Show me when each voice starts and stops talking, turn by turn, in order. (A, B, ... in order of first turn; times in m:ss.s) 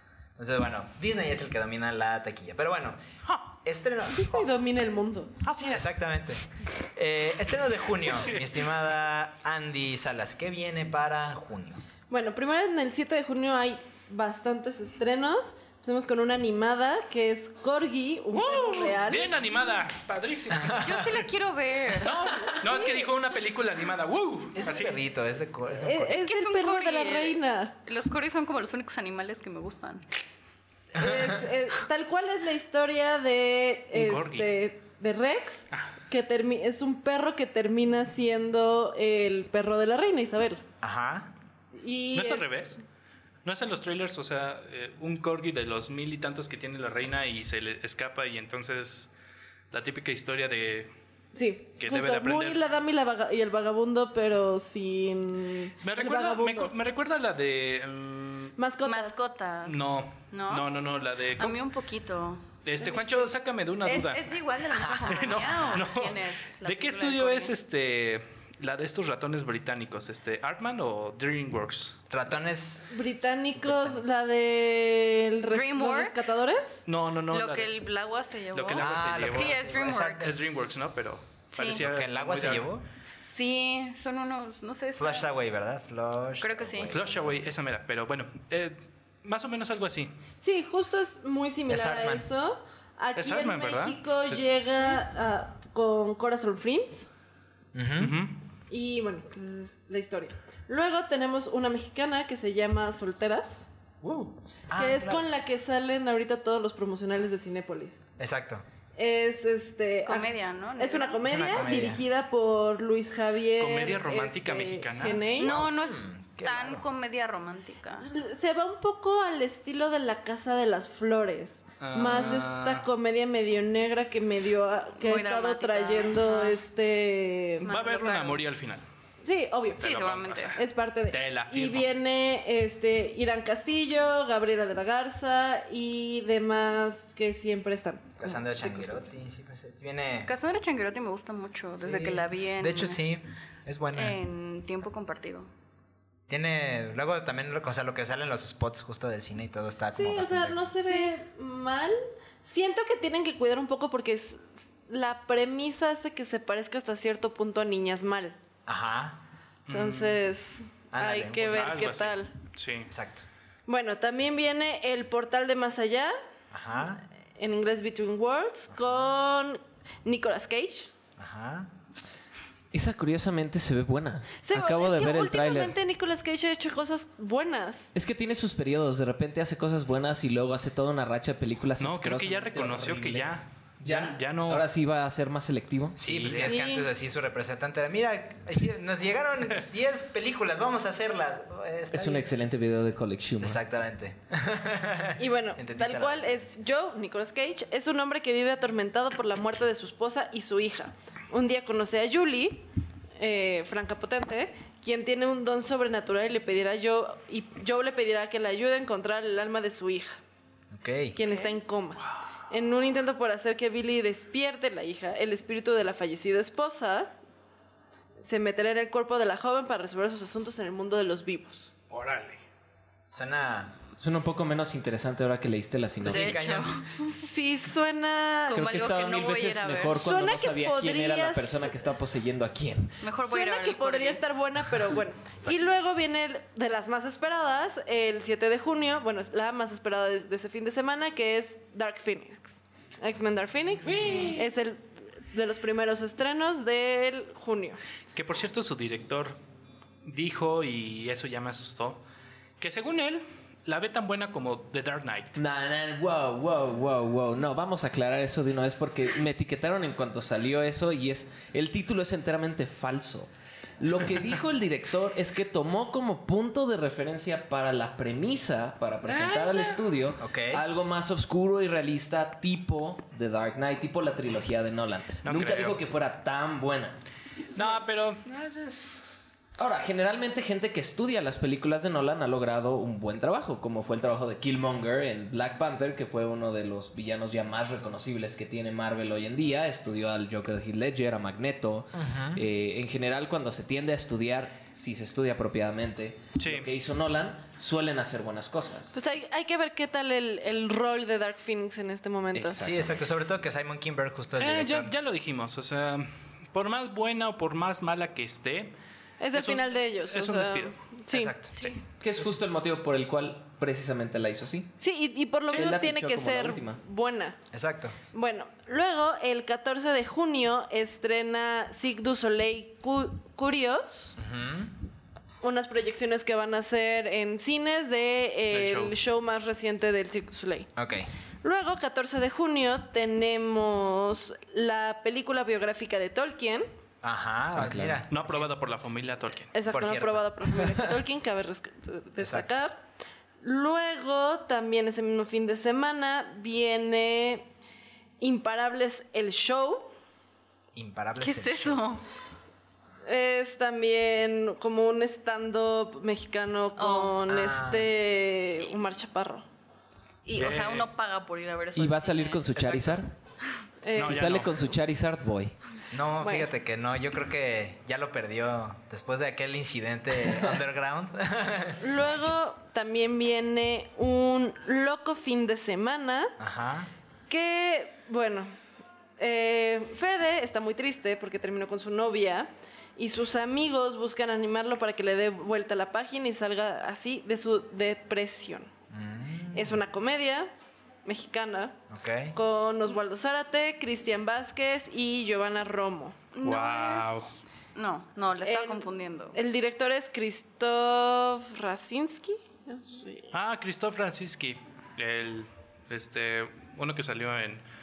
0:00.4-0:03.0 A
0:03.6-0:04.5 A
0:04.1-0:05.3 B
0:05.4-0:05.8 C
0:05.7-0:11.8 A
0:12.1-0:19.3 B
0:18.4-0:20.8 C
0:20.5-0:21.2 A
0:20.8-0:22.6 D
0:22.0-0:25.0 C
0:22.5-0:23.0 B
0:24.6-0:26.2 A
0:25.8-0:27.8 B
0:26.2-0:30.0 D
0:30.9-0:40.6 B
0:31.0-0:31.4 A
0:33.9-0:34.5 C
0:40.8-0:41.3 A
0:41.8-0:42.5 B
0:42.1-0:42.8 C
0:43.4-0:49.1 C
0:49.7-0:50.9 C
0:51.3-0:56.7 B
0:51.8-0:52.6 C
0:55.8-0:58.6 C
0:58.6-0:59.2 B
0:58.8-1:00.7 D
0:59.6-1:01.6 C
1:01.4-1:02.5 D
1:02.6-1:04.4 C
1:03.8-1:07.6 D
1:04.7-1:05.8 A
1:05.1-1:12.0 C
1:12.1-1:14.0 A
1:12.9-1:16.8 B
1:15.5-1:16.4 D
1:16.9-1:17.7 C
1:17.3-1:20.4 D
1:18.5-1:19.6 C
1:18.8-1:22.8 A
1:20.2-1:22.7 C
1:21.6-1:21.8 D
1:23.2-1:25.3 D
1:25.0-1:27.4 A
1:26.4-1:27.0 D
1:26.9-1:30.1 C
1:30.4-1:37.1 B
1:31.7-1:32.3 A
1:33.2-1:34.4 C
1:37.7-1:38.2 A
1:38.0-1:38.4 C
1:38.7-1:43.7 B
1:44.0-1:44.3 C
1:44.7-1:45.3 A
1:44.7-1:48.1 B
1:48.2-1:48.6 A
1:49.0-1:55.5 B
1:50.0-1:51.6 D
1:51.2-1:52.0 A
1:53.6-1:55.3 C
1:55.4-1:58.1 D
1:55.4-1:56.8 A
1:58.0-2:07.7 B
2:01.8-2:02.9 C
2:05.0-2:06.6 D
2:07.6-2:08.4 D
2:07.7-2:08.9 C
2:09.2-2:10.0 B
2:09.8-2:10.6 D
2:09.8-2:10.2 A
2:09.9-2:11.9 C
2:10.6-2:18.9 B
2:18.2-2:20.3 A
2:20.3-2:23.0 D
2:21.8-2:24.2 A
2:23.9-2:25.5 D
2:26.3-2:30.7 A
2:29.9-2:38.4 B
2:38.7-2:39.2 A
2:39.7-2:40.2 C
2:39.7-2:42.3 B
2:40.9-2:41.8 A
2:41.5-2:42.9 C
2:42.9-2:43.3 A
2:43.7-2:46.1 B
2:46.5-2:47.0 A
2:47.3-2:50.9 B
2:51.2-2:51.7 A
2:52.7-2:55.8 E
2:54.4-2:57.9 B
2:57.9-3:06.4 E
3:01.8-3:04.7 C
3:06.0-3:12.3 A
3:06.0-3:06.5 C
3:06.3-3:06.9 B
3:11.9-3:13.6 E
3:13.4-3:16.5 A
3:15.2-3:22.6 B
3:23.2-3:30.2 B
3:30.7-3:31.2 A
3:31.2-3:37.1 B
3:38.2-3:41.7 B
3:41.9-3:42.4 C
3:43.1-3:43.7 A
3:44.0-3:46.5 E
3:46.0-3:46.8 A
3:46.0-3:47.1 D
3:47.1-3:48.6 B
3:48.5-3:50.0 D
3:48.5-3:53.0 E
3:50.0-3:51.8 B
3:53.0-3:54.2 D
3:53.2-4:07.8 B
4:03.8-4:04.4 C
4:08.1-4:09.4 C
4:10.0-4:12.0 C
4:12.6-4:15.3 C
4:15.4-4:37.0 E
4:29.1-4:29.8 C
4:30.2-4:30.6 A
4:35.2-4:35.8 C
4:37.6-4:39.0 C
4:39.6-4:58.9 E
4:51.9-4:52.4 A
4:56.4-4:56.7 C
4:58.9-5:02.6 B
5:02.4-5:03.0 E
5:02.6-5:04.9 A
5:04.4-5:08.7 C
5:09.2-5:11.4 B
5:09.3-5:10.8 C
5:11.1-5:11.6 A
5:12.0-5:14.7 E
5:14.8-5:17.4 B
5:15.5-5:16.8 E
5:17.5-5:18.0 A
5:18.1-5:24.2 B
5:24.2-5:24.7 A
5:25.4-5:30.7 B
5:28.5-5:29.0 C
5:30.8-5:31.1 A
5:31.4-5:36.7 B
5:37.0-5:38.5 A
5:37.6-5:38.0 E
5:38.1-5:39.5 C
5:39.5-5:42.8 B
5:39.7-5:40.2 A
5:42.2-5:42.6 A
5:43.4-5:47.5 B
5:48.2-5:49.9 B
5:50.7-5:51.8 A
5:51.2-5:52.0 D
5:53.1-5:59.4 B
5:56.8-5:57.2 D
5:57.2-5:57.9 A
6:00.2-6:02.5 D
6:00.3-6:00.9 C
6:01.8-6:03.1 E
6:02.6-6:03.0 A
6:03.8-6:04.4 B
6:04.0-6:05.6 E
6:04.0-6:04.7 C
6:05.9-6:12.4 A
6:06.2-6:06.5 B
6:10.2-6:10.6 E
6:11.8-6:16.4 B
6:16.4-6:16.9 A
6:17.3-6:18.6 B
6:19.2-6:28.7 B
6:28.9-6:29.8 A
6:29.5-6:30.5 B
6:31.0-6:31.8 B
6:31.9-6:32.4 A
6:32.3-6:36.2 B
6:36.3-6:37.2 D
6:36.4-6:37.3 C
6:37.8-6:39.4 D
6:38.4-6:43.3 B
6:43.3-6:47.6 C